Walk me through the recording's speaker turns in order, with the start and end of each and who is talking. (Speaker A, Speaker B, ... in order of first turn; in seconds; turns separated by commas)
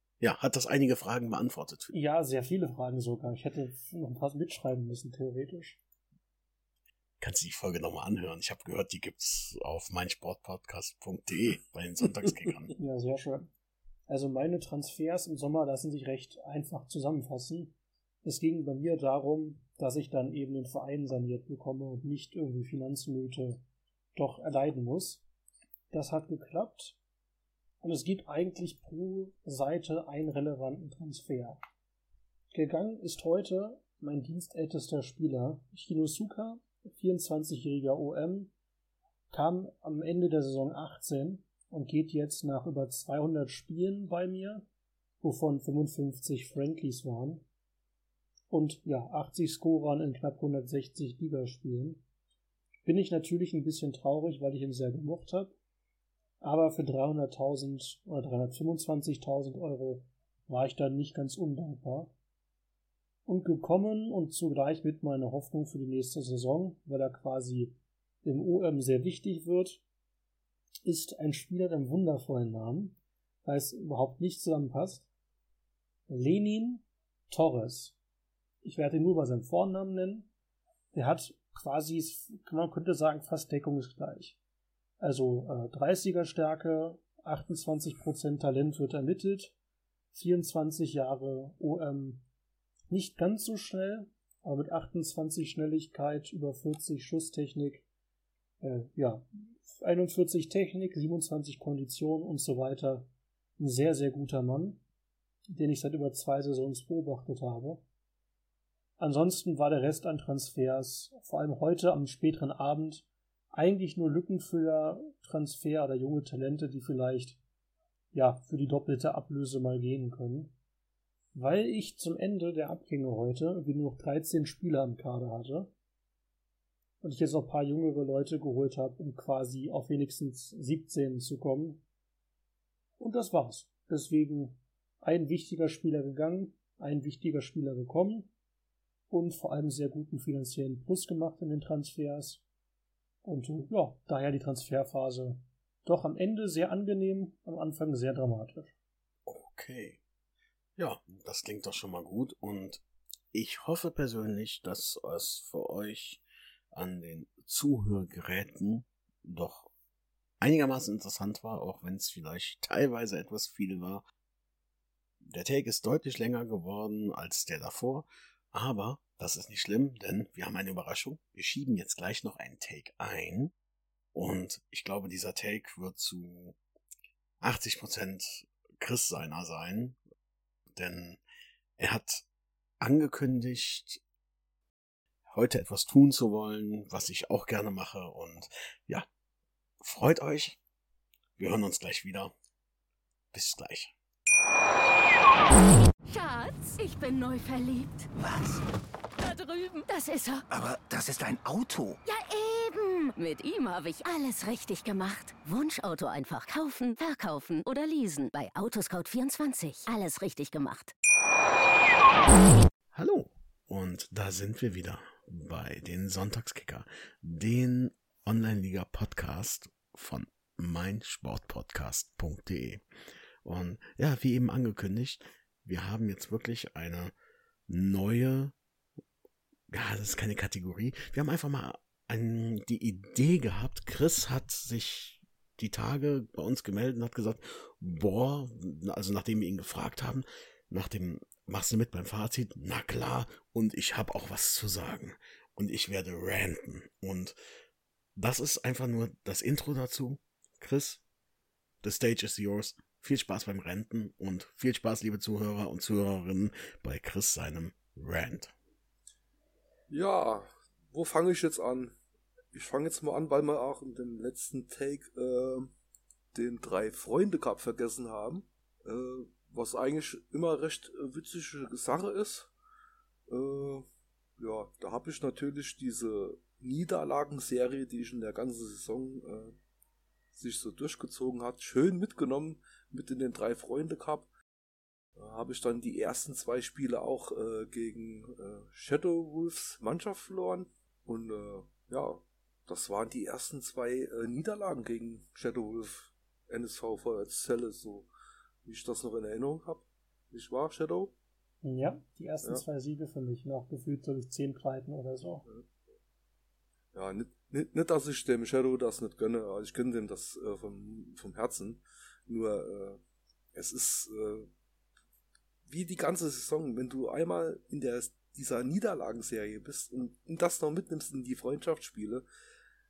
Speaker A: 0.2-1.9, Speaker B: 1.9-5.8, Speaker A: 7.2-12.7, Speaker B: 12.7-13.5, Speaker B: 14.1-23.6, Speaker B: 24.1-25.2, Speaker B: 25.9-27.0, Speaker B: 27.8-31.6, Speaker B: 32.5-38.5, Speaker B: 39.3-44.7, Speaker B: 45.2-47.5, Speaker B: 48.5-52.0, Speaker B: 52.8-55.6, Speaker B: 56.4-62.1, Speaker B: 63.3-69.8, Speaker B: 70.8-75.1, Speaker B: 76.1-78.0, Speaker B: 78.6-80.3, Speaker B: 80.9-84.4, Speaker B: 85.0-89.5, Speaker B: 90.1-92.2, Speaker B: 92.9-97.8, Speaker B: 98.6-104.8, Speaker B: 105.5-107.8, Speaker B: 109.0-117.4, Speaker B: 118.1-120.5, Speaker B: 121.3-125.7, Speaker B: 127.0-131.8, Speaker B: 133.0-138.3, Speaker B: 139.1-142.4, Speaker B: 143.2-148.8, Speaker A: 149.3-150.0, Speaker A: 150.8-152.8, Speaker A: 153.3-159.7, Speaker A: 160.4-164.1, Speaker A: 165.2-173.5, Speaker A: 174.1-176.6, Speaker A: 177.4-180.0, Speaker A: 180.8-181.2, Speaker A: 181.8-182.2, Speaker A: 182.8-184.0, Speaker A: 185.3-189.1, Speaker A: 189.8-190.6, Speaker A: 191.4-192.3, Speaker A: 193.3-193.9, Speaker C: 196.1-198.1, Speaker D: 198.2-198.6, Speaker C: 199.2-200.4, Speaker D: 200.5-202.0, Speaker C: 202.1-210.9, Speaker A: 212.9-222.8, Speaker A: 223.4-227.1, Speaker A: 227.7-228.6, Speaker A: 229.7-247.4, Speaker A: 248.2-251.0, Speaker A: 251.8-258.5, Speaker E: 259.9-262.0, Speaker E: 262.5-265.8, Speaker E: 266.3-272.5, Speaker E: 273.3-273.9, Speaker E: 274.4-279.6, Speaker E: 280.4-284.3, Speaker E: 285.2-298.1, Speaker E: 298.6-301.1, Speaker B: 301.6-305.4, Speaker E: 306.9-313.0, Speaker E: 313.6-314.5, Speaker E: 315.7-322.3